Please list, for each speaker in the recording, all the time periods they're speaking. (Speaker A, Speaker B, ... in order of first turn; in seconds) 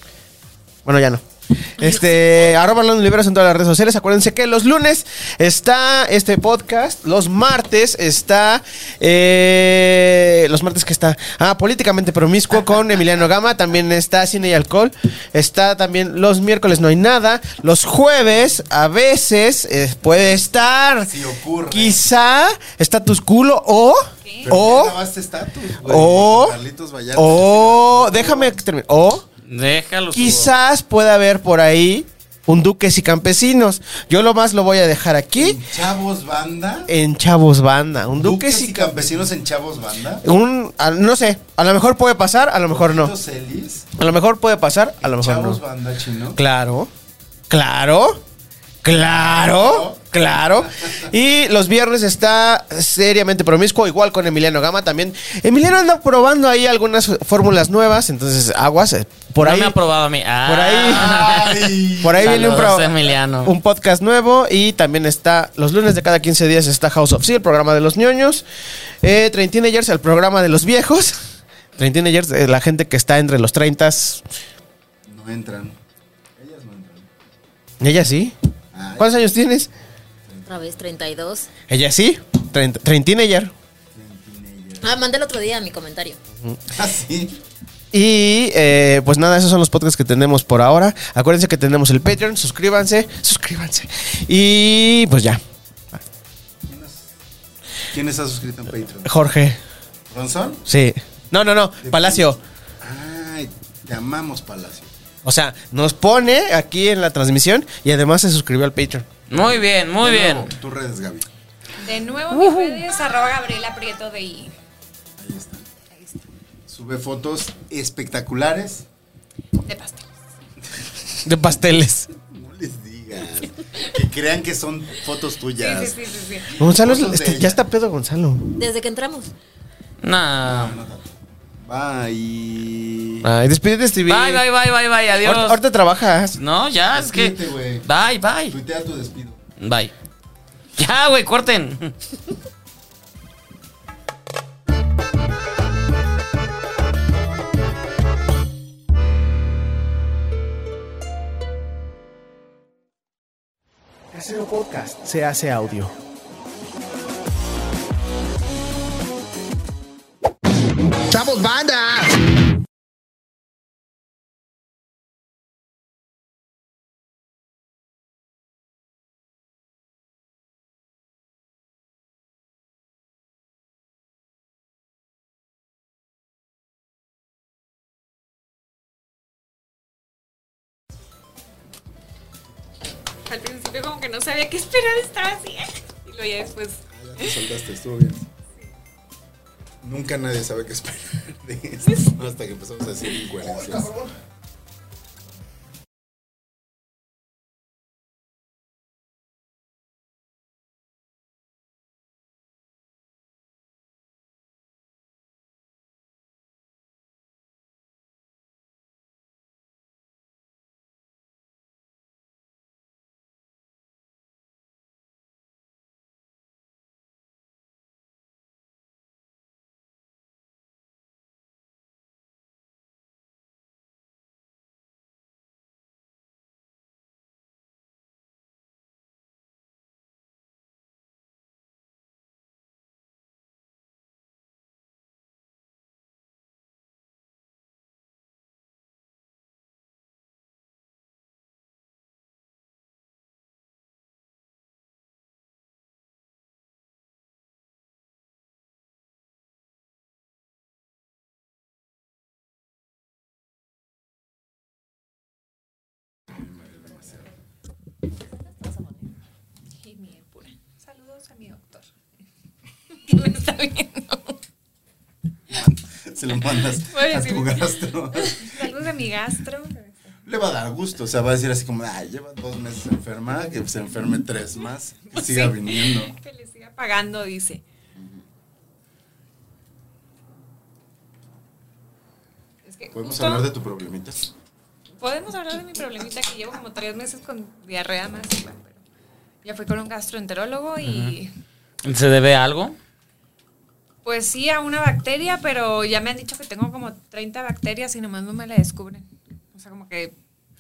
Speaker A: 0.8-25.0, 25.8-26.6, 27.1-29.2, 30.1-35.6, 36.9-39.2, 40.2-43.1, 44.0-45.6, 46.3-46.9, 47.5-48.2, 48.8-59.8, 60.4-61.2, 62.0-68.5, 69.0-71.2, 71.8-74.2, 77.8-78.3, 79.0-79.7, 81.7-83.5, 87.9-95.4, 99.0-99.6, 100.7-102.4, 105.2-109.1, 112.3-112.8, 121.2-122.1, 126.6-128.5, 133.2-134.4, 135.2-136.4, 154.1-155.9, 161.1-162.2, 193.4-194.2
Speaker B: 21.1-22.0, 24.4-28.6, 35.4-36.9, 38.2-40.2, 42.7-43.9, 45.0-46.4, 49.3-50.0, 50.5-51.1, 60.8-63.2, 75.1-75.8, 76.4-77.1, 78.7-79.3, 80.3-80.8, 83.9-85.0, 86.7-87.4, 96.7-97.1, 97.9-99.2, 100.1-100.6, 101.8-102.3, 102.8-104.9, 109.3-111.3, 115.2-115.7, 116.7-118.8, 122.2-127.6, 130.4-133.3, 136.9-137.8, 138.5-139.4, 186.9-188.3, 189.8-193.9, 256.3-257.3, 265.5-268.6, 270.3-276.1, 278.0-278.3, 282.9-284.3
Speaker C: 24.2-24.5, 111.8-114.5, 115.9-116.3, 119.7-120.1, 125.6-126.5, 183.3-187.4, 191.8-192.2, 259.8-261.9, 263.1-264.4, 266.9-270.2, 275.1-277.6, 282.7-283.5, 285.0-288.8, 289.4-291.3, 294.1-300.1
Speaker D: 29.4-30.6, 59.4-63.5, 109.3-110.5, 130.0-130.8, 134.1-135.6, 136.4-138.6, 139.6-139.9, 140.8-141.9, 290.8-291.2, 291.8-292.8
Speaker E: 80.5-81.5, 84.8-86.2, 128.6-129.3